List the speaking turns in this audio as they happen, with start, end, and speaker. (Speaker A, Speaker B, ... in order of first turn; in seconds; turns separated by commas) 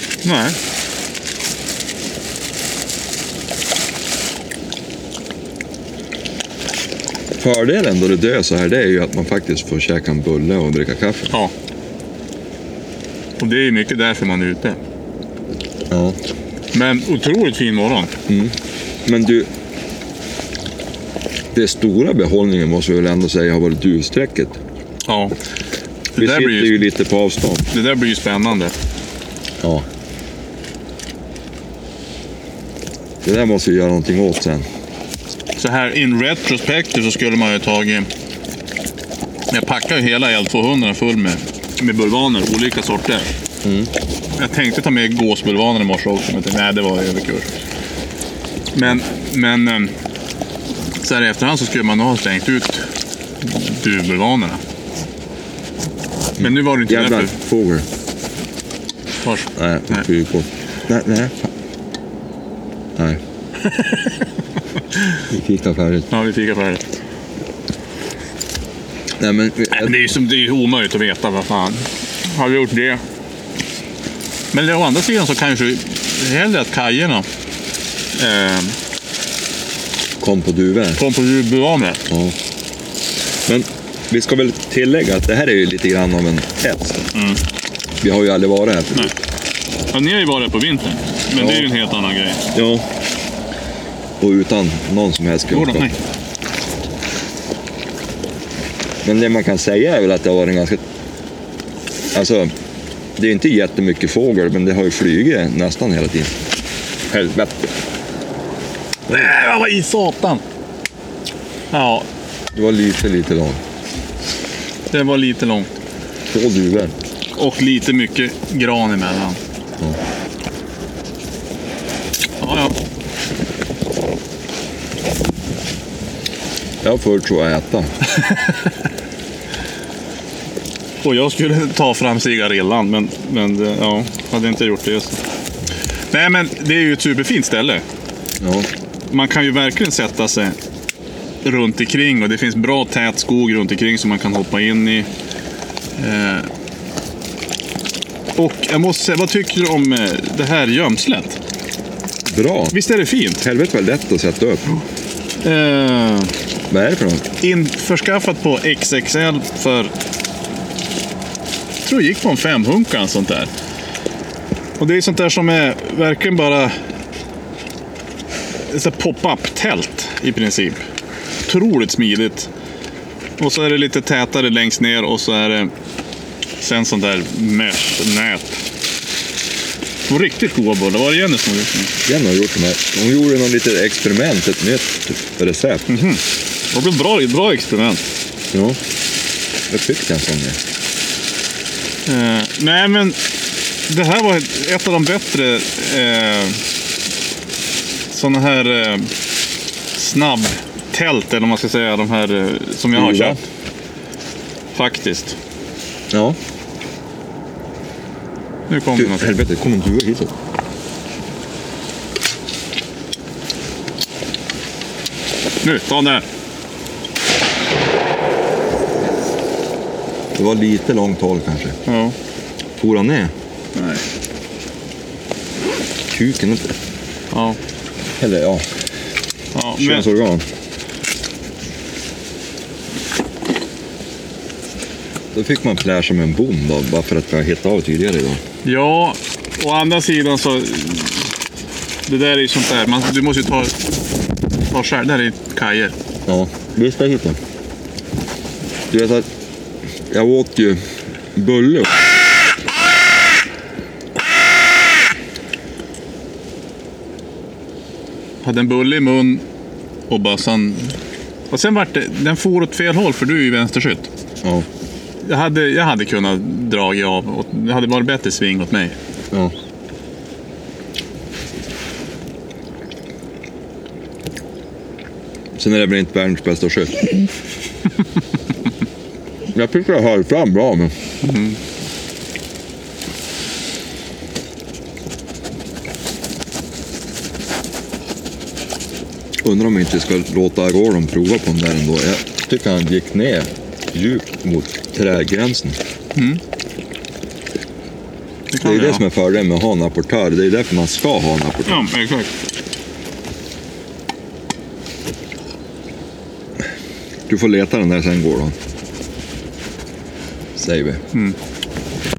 Speaker A: 0.2-0.6, Speaker B: 7.4-11.3, Speaker A: 13.4-14.8, Speaker B: 15.9-16.2, Speaker A: 16.7-18.1, Speaker B: 18.3-19.5, Speaker B: 21.5-24.6, Speaker A: 25.1-25.4, Speaker A: 26.1-26.8, Speaker B: 26.2-27.7, Speaker A: 27.7-28.8, Speaker B: 29.6-29.9, Speaker B: 33.2-34.6, Speaker A: 35.6-38.1, Speaker A: 39.5-43.3, Speaker B: 43.6-43.9, Speaker A: 44.4-47.6, Speaker A: 48.7-49.9, Speaker A: 51.0-52.9, Speaker A: 53.4-54.6, Speaker A: 56.4-57.3, Speaker B: 56.4-57.9, Speaker A: 59.2-60.1, Speaker B: 59.6-61.5, Speaker B: 63.0-63.2, Speaker A: 63.6-64.2, Speaker A: 65.0-65.2, Speaker B: 65.3-66.1, Speaker A: 66.1-66.8, Speaker B: 69.2-70.0, Speaker A: 69.7-73.0, Speaker A: 74.5-77.3, Speaker A: 78.1-78.8, Speaker B: 80.2-81.0, Speaker A: 81.0-82.0, Speaker B: 82.1-82.4, Speaker B: 83.5-87.0, Speaker A: 87.1-87.4, Speaker B: 88.0-89.2, Speaker A: 89.9-92.5, Speaker B: 91.4-91.7, Speaker B: 92.5-92.9, Speaker B: 94.2-95.9, Speaker A: 95.5-96.0, Speaker B: 99.0-100.8, Speaker B: 102.1-102.5, Speaker B: 103.2-106.4, Speaker B: 107.1-107.7, Speaker A: 109.1-110.4, Speaker A: 111.7-112.1, Speaker B: 112.5-113.6, Speaker A: 114.9-115.7, Speaker B: 116.3-117.0, Speaker A: 117.4-119.4, Speaker A: 122.4-122.8, Speaker B: 126.8-127.9, Speaker A: 128.1-128.6, Speaker A: 131.0-135.2, Speaker A: 136.1-137.8, Speaker B: 138.4-138.7, Speaker A: 139.1-140.6, Speaker A: 141.4-145.1, Speaker A: 146.0-146.5, Speaker A: 148.4-151.4, Speaker B: 152.3-152.8, Speaker A: 152.7-153.4, Speaker B: 153.4-154.8, Speaker A: 155.4-156.3, Speaker B: 156.7-157.2, Speaker A: 157.4-159.9, Speaker A: 161.8-163.5, Speaker A: 164.8-166.8, Speaker A: 168.7-170.8, Speaker A: 171.5-172.5, Speaker A: 173.4-175.7, Speaker A: 176.6-178.6, Speaker A: 180.1-181.9, Speaker B: 182.1-186.0, Speaker A: 185.9-188.1, Speaker B: 188.5-188.8, Speaker B: 189.7-190.6, Speaker A: 192.1-193.2, Speaker A: 193.9-196.6, Speaker A: 198.1-199.1, Speaker A: 200.0-203.4, Speaker B: 202.9-203.4, Speaker A: 204.8-205.4, Speaker B: 206.1-206.4, Speaker A: 208.7-209.4, Speaker B: 209.0-210.3, Speaker A: 215.6-216.3, Speaker B: 220.3-221.8, Speaker A: 221.9-222.2, Speaker B: 222.8-223.3, Speaker A: 223.8-224.0, Speaker B: 226.1-226.8, Speaker A: 227.3-227.6, Speaker B: 228.2-228.7, Speaker A: 229.6-230.1, Speaker B: 229.8-230.4, Speaker B: 235.3-238.4, Speaker A: 238.6-241.3, Speaker A: 242.1-243.8, Speaker A: 244.7-245.9, Speaker B: 246.3-247.4, Speaker B: 248.9-249.3, Speaker B: 250.1-252.0, Speaker A: 258.4-259.4, Speaker A: 260.1-261.0, Speaker A: 261.5-264.1, Speaker A: 265.2-269.0, Speaker B: 275.6-277.3, Speaker B: 279.5-280.9, Speaker A: 281.2-281.6, Speaker B: 289.4-295.8, Speaker A: 296.1-296.4, Speaker A: 298.5-299.0, Speaker B: 298.6-301.9, Speaker A: 301.7-302.3, Speaker B: 307.3-308.6, Speaker B: 310.6-311.0